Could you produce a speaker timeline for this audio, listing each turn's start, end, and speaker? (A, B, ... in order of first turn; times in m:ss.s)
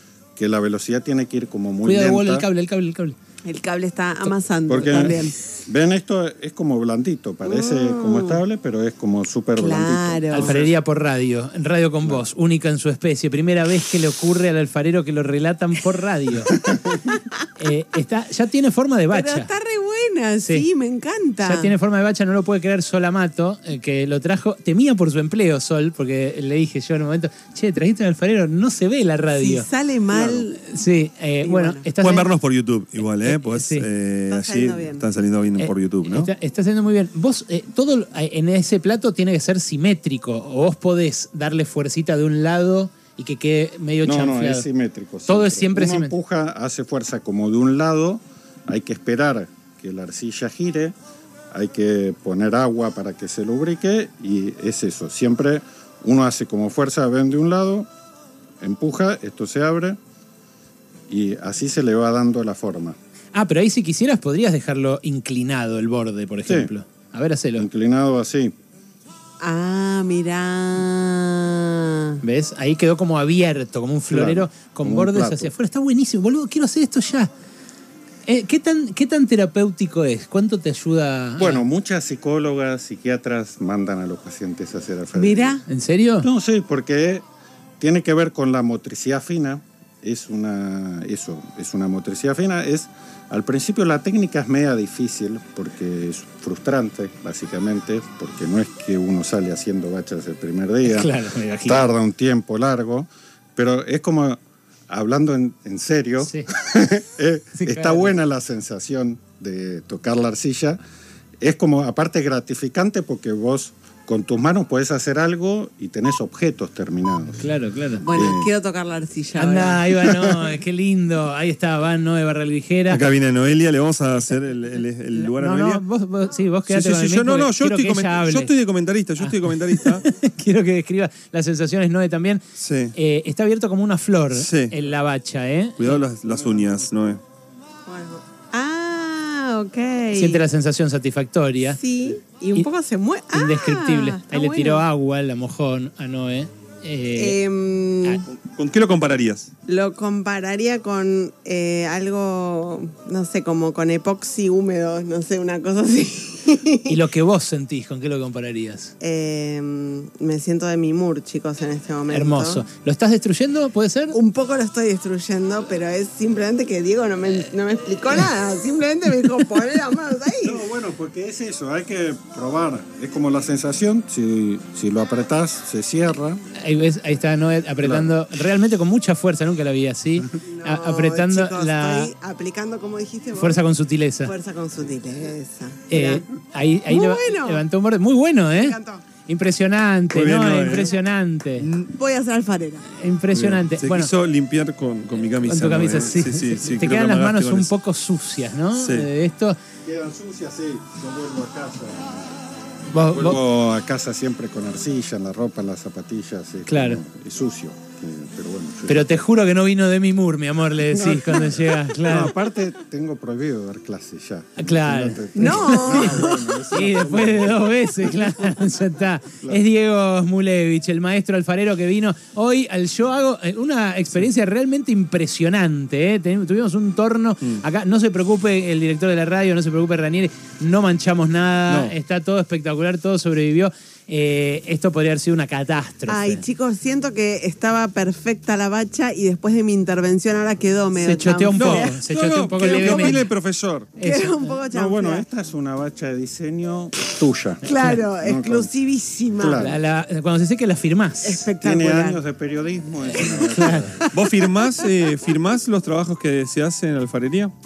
0:00.4-0:02.5 A
0:01.8-0:03.2 B
0:03.5-0:05.4 C
0:04.7-0:10.7 A
0:07.4-0:08.4 C
0:09.6-0:10.6 C
0:10.3-0:16.6 B
0:17.6-0:19.5 B
0:19.1-0:21.7 C
0:20.4-0:20.7 B
0:21.4-0:29.7 B
0:29.4-0:30.7 C
0:30.6-0:32.3 B
0:31.4-0:31.9 C
0:32.0-0:36.3 D
0:33.2-0:33.9 B
0:34.3-0:35.0 C
0:35.6-0:44.7 B
0:44.0-0:51.0 A
0:45.3-0:46.2 B
0:51.5-0:57.9 A
0:58.6-1:00.0 A
1:01.1-1:03.0 A
1:03.3-1:07.7 B
1:06.5-1:06.7 A
1:07.6-1:08.6 A
1:09.4-1:12.2 C
1:12.2-1:17.3 B
1:14.1-1:15.5 A
1:18.3-1:21.6 B
1:21.4-1:25.6 A
1:25.2-1:25.6 C
1:25.7-1:26.3 B
1:26.2-1:27.2 A
1:27.8-1:41.2 A
1:40.8-1:41.9 B
1:41.7-1:50.8 A
1:46.2-1:46.5 B
1:47.6-1:48.1 B
1:51.4-1:57.5 A
1:57.4-1:58.0 B
1:58.0-2:00.1 C
1:58.1-1:58.5 A
1:59.4-2:03.1 B
2:02.9-2:05.8 D
2:05.2-2:08.5 B
2:06.7-2:10.0 D
2:09.2-2:12.4 B
2:12.6-2:12.9 D
2:12.9-2:16.0 B
2:14.3-2:14.7 D
2:15.8-2:17.2 D
2:17.9-2:20.4 C
2:20.2-2:21.8 B
2:21.7-2:24.8 C
2:23.3-2:27.4 B
2:27.2-2:28.2 C
2:28.4-2:29.5 D
2:29.7-2:37.0 C
2:36.9-2:38.9 B
2:39.0-2:42.6 C
2:42.1-2:44.2 B
2:44.1-2:50.6 C
2:50.4-2:56.4 A
2:56.6-3:02.1 B
2:57.8-2:58.1 A
3:00.4-3:03.6 C
3:03.4-3:04.3 B
3:04.2-3:06.3 C
3:05.9-3:11.7 B
3:06.9-3:07.6 C
3:08.5-3:09.0 C
3:10.1-3:11.0 D
3:11.6-3:11.9 D
3:12.0-3:12.9 C
3:12.9-3:14.1 B
3:13.4-3:17.7 D
3:15.4-3:19.6 B
3:18.8-3:19.1 D
3:19.8-3:22.4 A
3:22.9-3:23.4 B
3:23.1-3:29.2 A
3:26.7-3:27.0 B
3:28.9-3:32.3 B
3:30.9-3:38.4 A
3:34.6-3:56.4 B
3:35.4-3:36.6 C
3:51.7-3:52.0 D
3:56.1-4:02.0 C
4:01.0-4:03.3 B
4:01.5-4:03.6 D
4:02.6-4:03.9 A
4:02.6-4:03.2 C
4:04.0-4:04.6 B
4:04.0-4:05.3 C
4:04.7-4:08.7 A
4:07.6-4:09.6 C
4:09.4-4:09.8 A
4:09.5-4:11.5 B
4:11.2-4:12.2 C
4:11.6-4:14.1 A
4:13.2-4:14.0 B
4:14.0-4:14.3 C
4:14.1-4:17.5 D